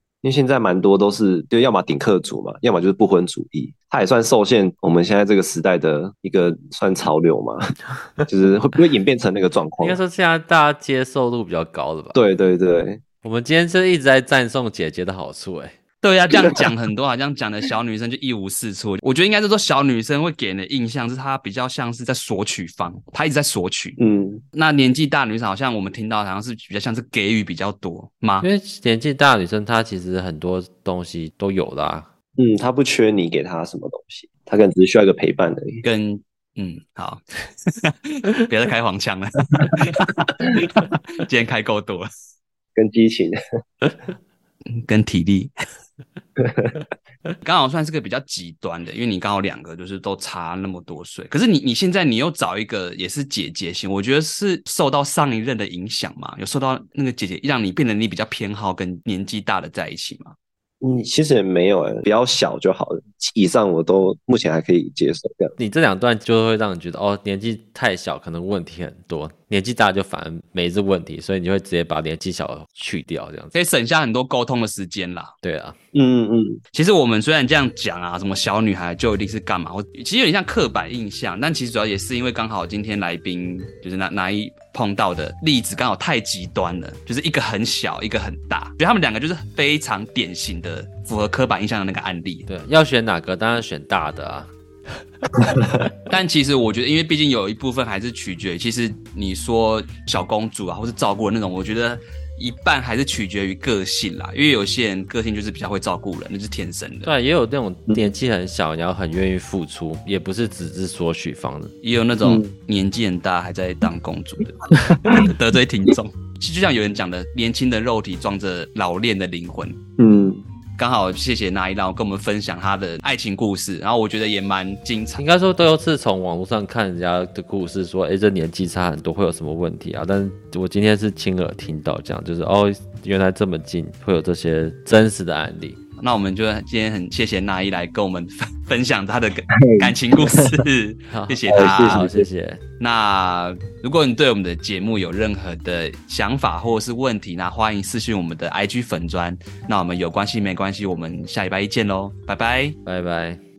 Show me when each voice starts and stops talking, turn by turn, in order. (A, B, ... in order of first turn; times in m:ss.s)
0:00.2-0:07.6 A
0:08.2-0:10.0 A
0:09.8-0:12.2 B
0:12.1-0:13.0 A
0:13.2-0:15.8 B
0:16.0-0:24.0 C
0:24.0-0:24.4 A
0:24.5-0:28.5 C
0:28.4-0:32.1 B
0:32.4-0:35.8 A
0:35.8-0:42.1 C
0:42.8-0:43.4 A
0:44.8-0:45.5 C
0:46.4-0:46.8 A
0:47.4-1:00.4 C
1:00.8-1:05.6 A
1:05.6-1:13.6 B
1:13.5-1:15.3 C
1:15.4-1:15.8 B
1:15.9-1:16.6 A
1:16.7-1:32.5 C
1:32.5-1:34.5 B
1:36.1-1:47.1 C
1:47.0-1:51.7 B
1:51.8-1:59.8 C
1:52.2-1:52.5 A
2:00.0-2:00.4 A
2:00.8-2:05.2 C
2:05.2-2:15.8 B
2:16.0-2:22.1 C
2:19.5-2:20.5 A
2:21.1-2:22.6 B
2:21.5-2:22.3 A
2:22.8-2:32.8 C
2:32.8-2:33.4 B